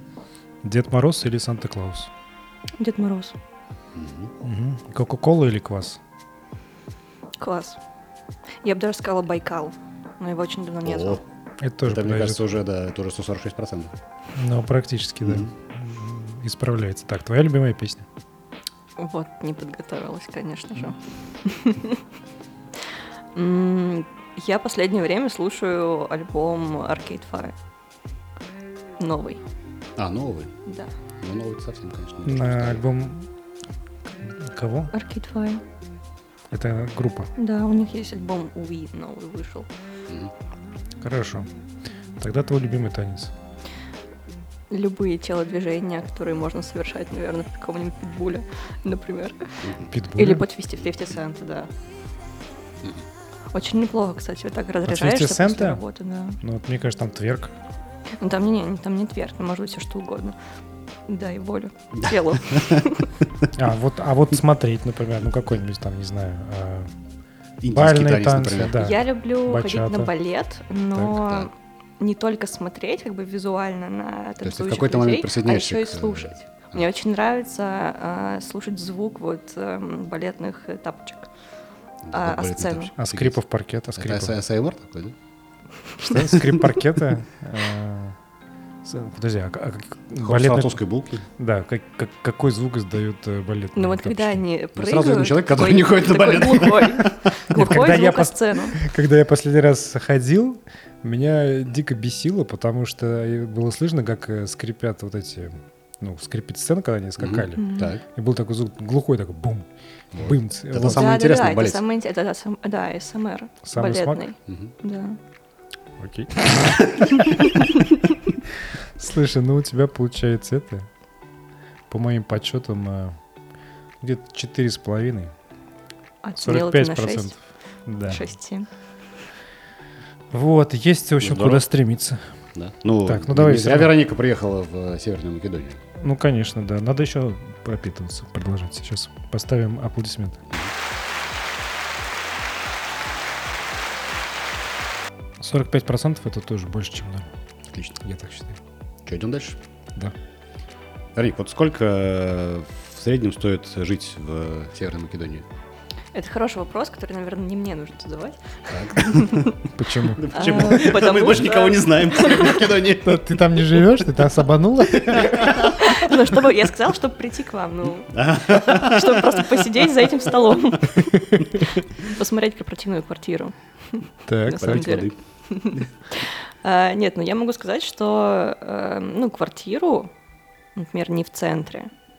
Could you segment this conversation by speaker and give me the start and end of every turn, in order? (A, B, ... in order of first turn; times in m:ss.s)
0:00.6-0:02.1 A
0:02.8-0:03.4 B
0:03.9-0:04.3 C
0:04.4-0:06.0 A
0:07.4-0:07.8 B
0:08.6-0:11.2 B
0:10.8-0:11.2 C
0:11.6-0:12.5 A
0:11.8-0:13.9 C
0:14.3-0:18.1 A
0:15.2-0:15.5 C
0:19.0-0:22.0 B
0:23.3-0:27.5 B
0:29.0-0:29.4 B
0:30.0-0:30.5 C
0:30.7-0:30.9 B
0:31.2-0:32.8 C
0:32.2-0:33.3 A
0:34.2-0:34.9 A
0:34.9-0:35.6 B
0:36.5-0:37.3 A
0:37.4-0:39.7 B
0:41.0-0:41.5 A
0:42.2-0:43.3 A
0:44.7-0:49.6 B
0:49.6-0:49.9 C
0:49.8-0:50.4 A
0:50.1-0:51.7 B
0:53.5-0:56.4 B
0:54.8-0:55.8 A
0:56.4-0:57.5 A
0:58.2-1:00.4 B
1:01.1-1:03.1 B
1:02.0-1:02.8 C
1:03.5-1:06.9 A
1:07.6-1:09.0 C
1:07.7-1:10.1 A
1:08.8-1:21.3 B
1:11.2-1:11.5 C
1:14.4-1:16.8 C
1:22.0-1:23.4 C
1:22.1-1:22.9 B
1:23.0-1:24.3 A
1:23.9-1:25.1 C
1:26.0-1:28.2 A
1:26.3-1:26.6 C
1:28.8-1:30.8 A
1:30.2-1:31.2 C
1:31.4-1:34.4 A
1:33.8-1:38.8 B
1:34.8-1:37.3 C
1:37.5-1:51.1 A
1:47.2-1:48.0 C
1:47.6-1:47.9 B
1:50.1-1:51.8 C
1:50.9-1:55.2 B
1:53.6-1:54.2 A
1:54.5-1:54.7 C
1:56.0-1:57.1 A
1:58.8-2:00.9 A
2:01.9-2:03.2 A
2:04.0-2:05.3 A
2:06.2-2:07.3 B
2:06.4-2:07.3 A
2:07.8-2:08.2 A
2:08.0-2:08.7 B
2:10.3-2:12.2 A
2:11.2-2:11.6 C
2:12.5-2:15.8 C
2:13.0-2:13.9 A
2:16.0-2:20.4 A
2:25.4-2:27.3 A
2:27.7-2:28.0 C
2:28.0-2:28.6 A
2:29.0-2:29.6 C
2:31.2-2:35.4 C
2:36.1-2:39.5 B
2:38.7-2:43.2 C
2:39.7-2:40.3 A
2:40.3-2:42.7 B
2:43.0-2:45.6 A
2:45.1-2:45.9 C
2:45.4-3:00.1 B
2:48.1-2:49.7 C
2:54.3-2:55.0 A
2:54.5-2:55.1 C
3:00.7-3:01.9 B